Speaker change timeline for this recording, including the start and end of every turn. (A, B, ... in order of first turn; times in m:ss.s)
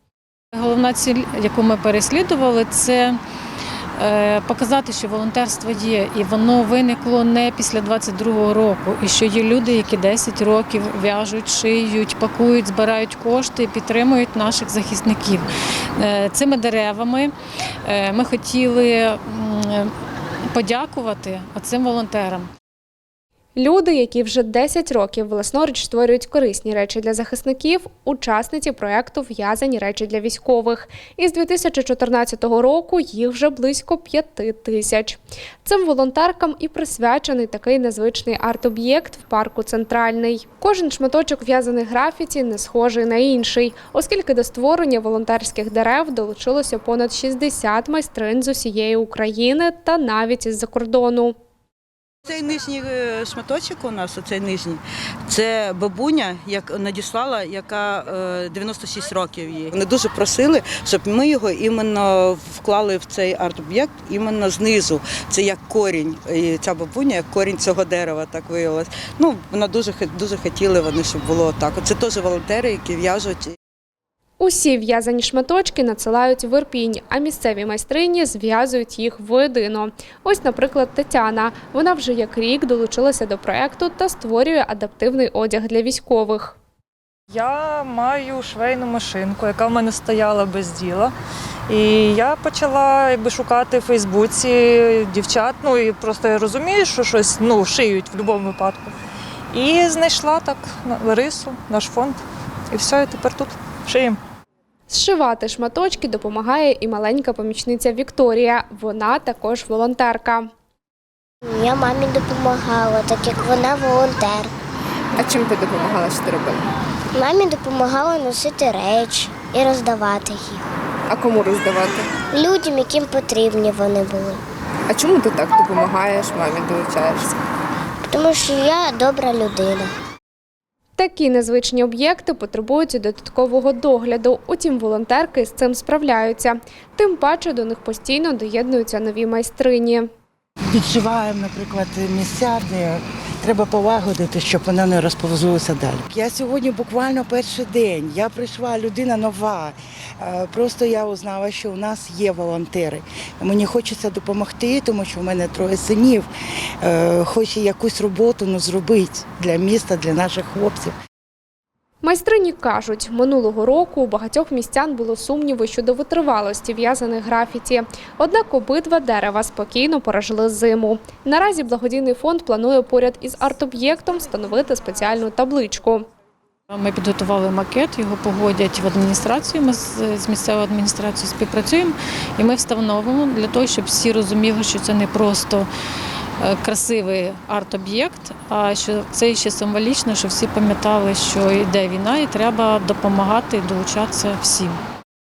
0:00.5-0:03.2 A
0:04.0-0:15.5 A
0:16.0-0:17.3 A
0:17.8-0:19.9 A
0:20.5-0:22.5 A
0:23.6-0:51.4 B
0:52.2-1:13.5 C
1:14.4-1:26.6 B
1:27.3-1:31.1 D
1:31.7-1:38.9 D
1:39.5-1:42.2 D
1:42.7-1:44.2 D
1:44.9-1:50.5 B
1:51.4-1:54.5 E
1:55.2-1:56.7 F
1:57.1-2:00.6 E
2:01.1-2:02.1 F
2:02.3-2:04.4 E
2:04.9-2:07.4 F
2:08.1-2:09.9 E
2:11.0-2:20.1 B
2:20.7-2:36.3 G
2:36.8-2:40.9 G
2:42.0-2:56.0 B
2:56.7-3:05.7 A
3:06.4-3:14.8 A